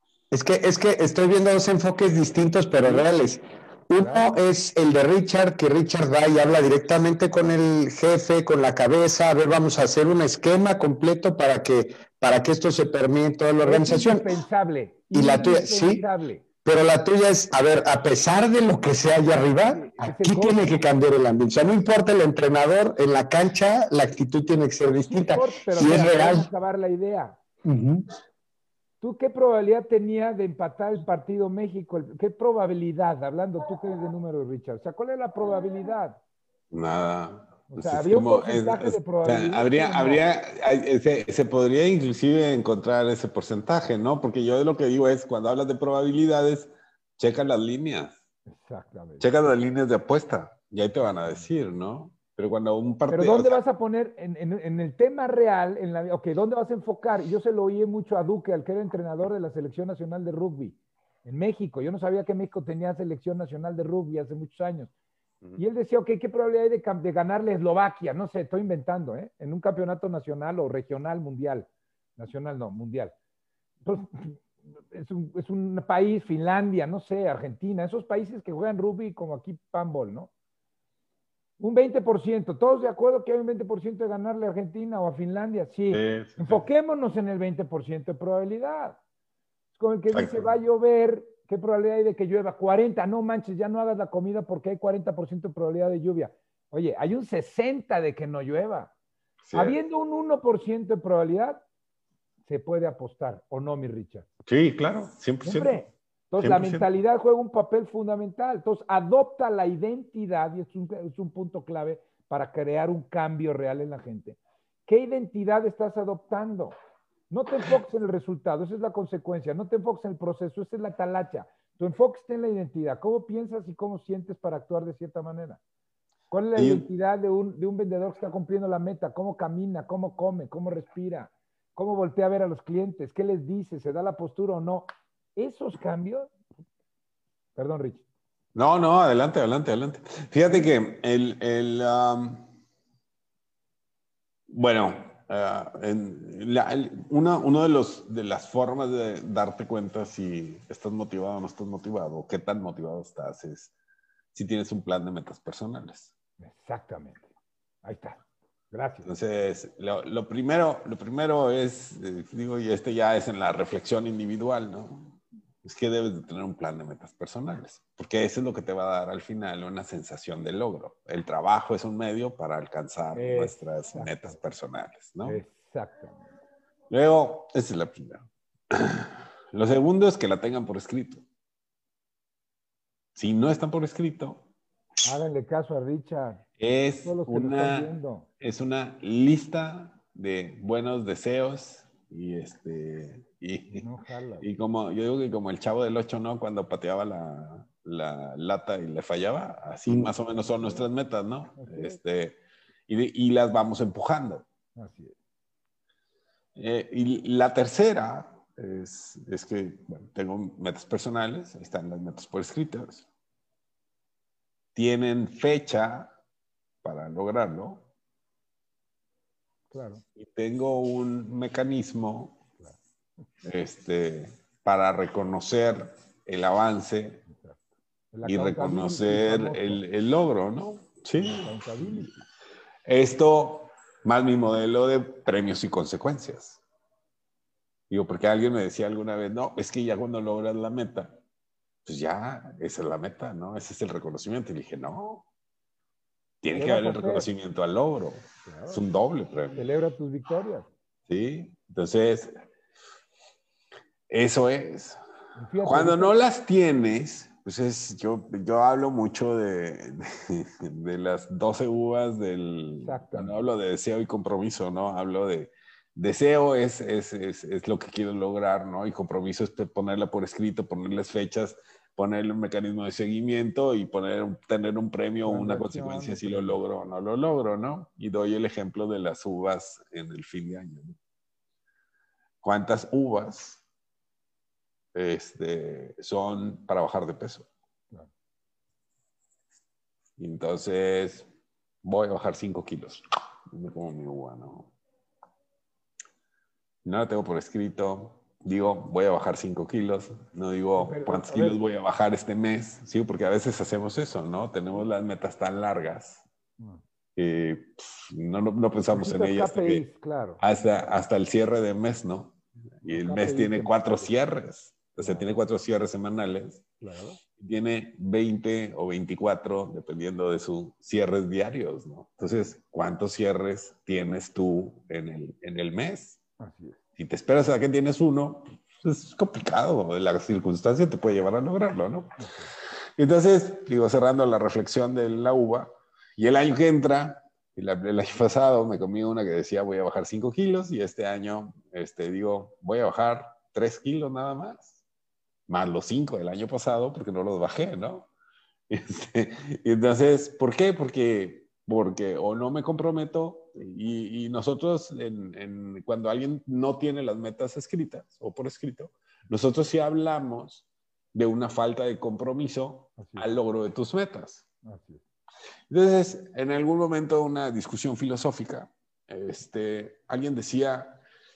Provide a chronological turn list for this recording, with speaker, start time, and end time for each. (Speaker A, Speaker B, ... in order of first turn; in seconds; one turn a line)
Speaker A: 0.3-14.3
Speaker B: 2.8-3.1
Speaker B: 4.0-4.3
Speaker B: 13.6-16.4
Speaker A: 15.1-16.0
Speaker A: 16.6-26.5
Speaker B: 19.7-20.6
Speaker B: 25.1-27.4
Speaker A: 27.6-28.1
Speaker B: 29.0-36.2
Speaker C: 36.7-48.2
Speaker B: 37.7-40.2
Speaker B: 48.5-49.3
Speaker C: 49.2-53.6
Speaker B: 53.1-64.9
Speaker B: 65.6-73.2
Speaker B: 73.8-80.3
Speaker B: 81.6-89.0
Speaker C: 85.9-86.7
Speaker B: 89.8-98.9
Speaker C: 90.1-90.5
Speaker C: 99.4-99.8
Speaker B: 99.5-101.6
Speaker B: 102.5-104.3
Speaker C: 104.5-105.8
Speaker B: 105.4-116.8
Speaker C: 106.4-106.9
Speaker B: 117.3-125.6
Speaker B: 126.3-136.3
Speaker C: 126.5-126.9
Speaker B: 137.6-138.1
Speaker C: 138.6-142.5
Speaker C: 144.5-153.7
Speaker C: 154.3-156.1
Speaker B: 156.4-157.3
Speaker B: 157.8-159.1
Speaker C: 159.1-175.4
Speaker B: 173.2-174.2
Speaker B: 175.2-176.3
Speaker C: 176.9-181.2
Speaker C: 183.2-184.4
Speaker B: 185.0-186.4
Speaker C: 186.6-193.8
Speaker B: 187.0-188.3
Speaker B: 193.8-194.4
Speaker C: 194.4-202.4
Speaker A: 199.9-200.1
Speaker B: 201.6-202.0
Speaker C: 202.9-204.4
Speaker B: 204.8-205.2
Speaker C: 206.6-213.1
Speaker C: 214.8-216.1
Speaker C: 216.8-217.9
Speaker B: 219.7-220.0
Speaker C: 220.2-222.4
Speaker C: 223.4-227.2
Speaker B: 227.3-227.6
Speaker B: 228.1-229.8
Speaker C: 228.2-232.1
Speaker B: 231.2-232.2
Speaker C: 232.9-236.6
Speaker C: 237.9-241.2
Speaker C: 241.8-245.3
Speaker C: 246.4-249.6
Speaker B: 246.6-247.3
Speaker B: 248.4-248.8
Speaker B: 249.6-250.7
Speaker C: 251.1-252.3
Speaker C: 254.1-255.0
Speaker B: 255.4-256.1
Speaker C: 255.6-281.0
Speaker B: 262.8-263.4
Speaker B: 275.2-276.6
Speaker C: 282.4-283.6
Speaker C: 284.9-287.5
Speaker C: 290.2-291.3
Speaker C: 291.8-294.7
Speaker C: 296.9-306.2
Speaker B: 300.8-301.6
Speaker C: 307.2-309.8
Speaker B: 308.9-310.4
Speaker C: 310.4-316.7
Speaker B: 312.9-314.1
Speaker B: 315.0-315.3
Speaker B: 316.8-317.2
Speaker C: 317.4-326.2
Speaker B: 326.4-326.8
Speaker C: 327.0-332.2
Speaker B: 332.2-332.5
Speaker C: 333.0-344.8
Speaker C: 345.5-348.1
Speaker C: 348.7-364.4
Speaker B: 363.0-363.3
Speaker B: 364.6-365.0
Speaker C: 365.7-371.0